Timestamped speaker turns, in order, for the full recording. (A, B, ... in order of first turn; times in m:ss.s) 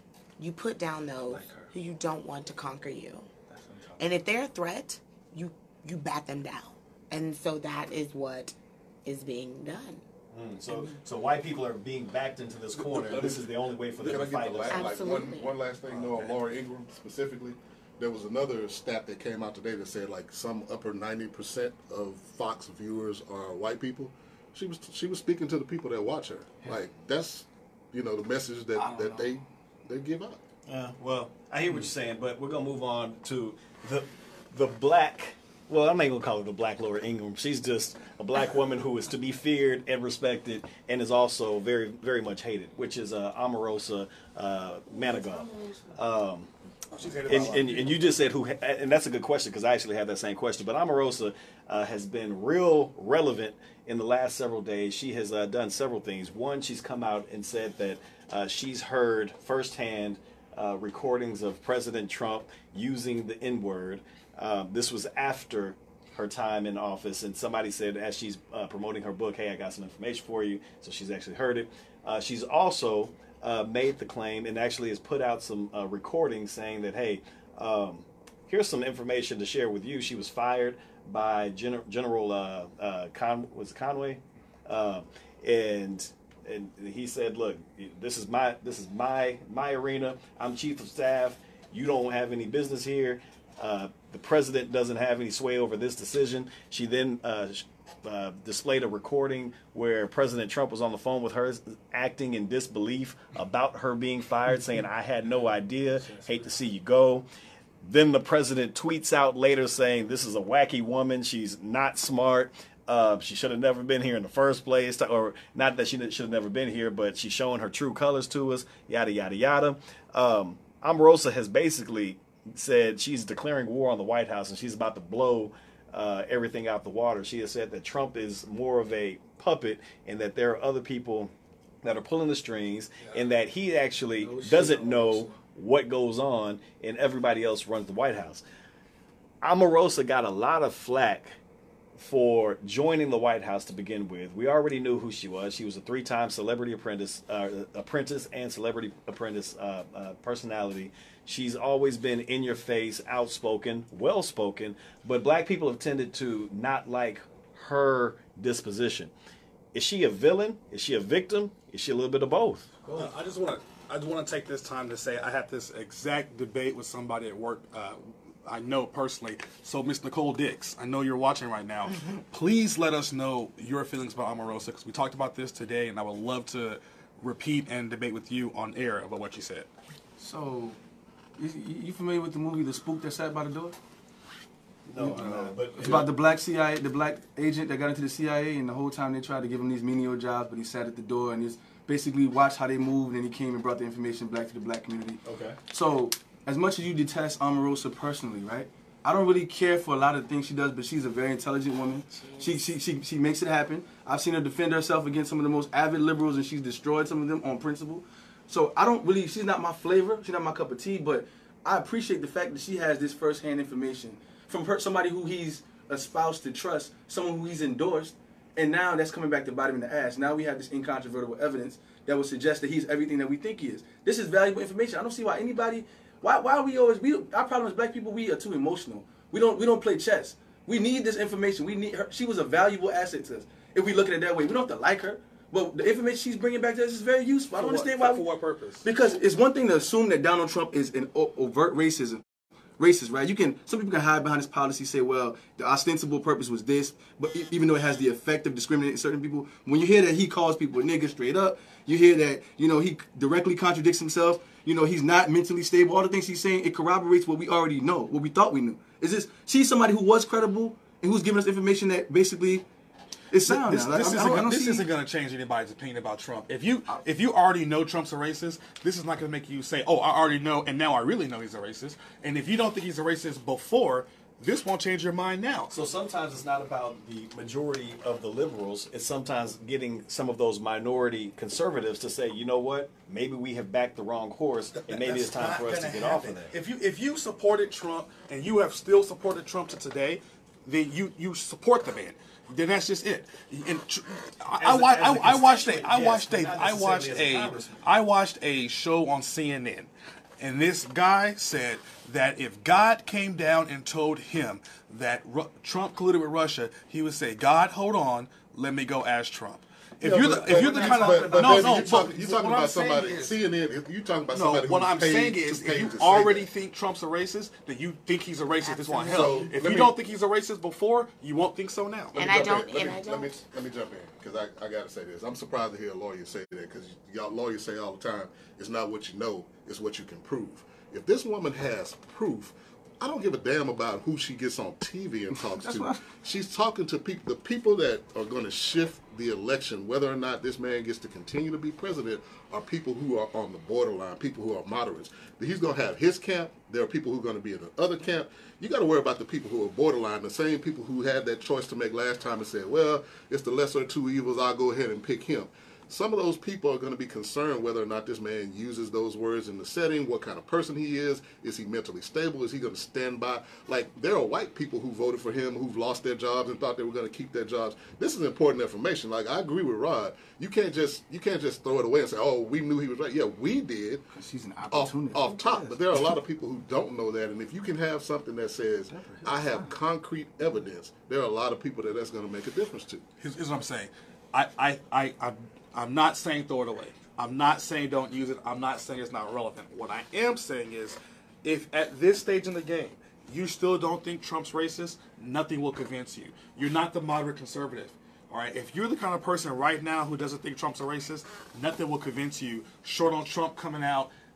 0:00.4-0:03.3 A
0:01.3-0:01.8 B
0:03.5-0:04.1 B
0:04.0-0:10.0 A
0:10.3-0:15.0 C
0:12.9-0:13.4 D
0:14.0-0:30.4 D
0:14.0-0:14.3 B
0:14.7-0:15.5 A
0:15.9-0:16.4 E
0:28.8-0:29.3 B
0:30.7-0:46.5 C
0:44.9-0:45.9 B
0:46.9-0:48.0 E
0:47.3-1:47.3 C
1:46.0-1:46.3 B
1:47.8-2:18.4 C
2:14.2-2:15.4 B
2:19.4-2:21.3 C
2:22.0-2:39.1 C
2:39.7-2:42.7 C
2:42.8-2:43.1 B
2:42.9-2:59.7 E
3:00.2-3:00.8 B
3:01.4-3:03.8 B
3:04.9-3:06.1 C
3:05.0-3:05.8 E
3:05.8-3:58.2 B
3:15.2-3:15.6 C
3:57.5-3:58.9 E
3:58.8-4:02.2 B
4:02.8-4:22.6 B
4:23.3-4:24.9 B
4:23.4-4:35.7 E
4:35.7-4:46.5 C
4:44.8-5:13.4 E
4:54.6-4:57.8 C
5:10.0-5:16.5 D
5:10.8-5:11.5 A
5:10.9-5:11.3 B
5:14.3-5:22.2 E
5:18.6-5:19.5 A
5:19.0-5:19.9 D
5:22.1-6:14.1 D
5:22.2-5:23.4 A
5:35.4-5:36.0 B
6:14.1-6:16.1 B
6:14.7-6:23.0 D
6:18.9-6:19.7 B
6:23.2-6:44.1 E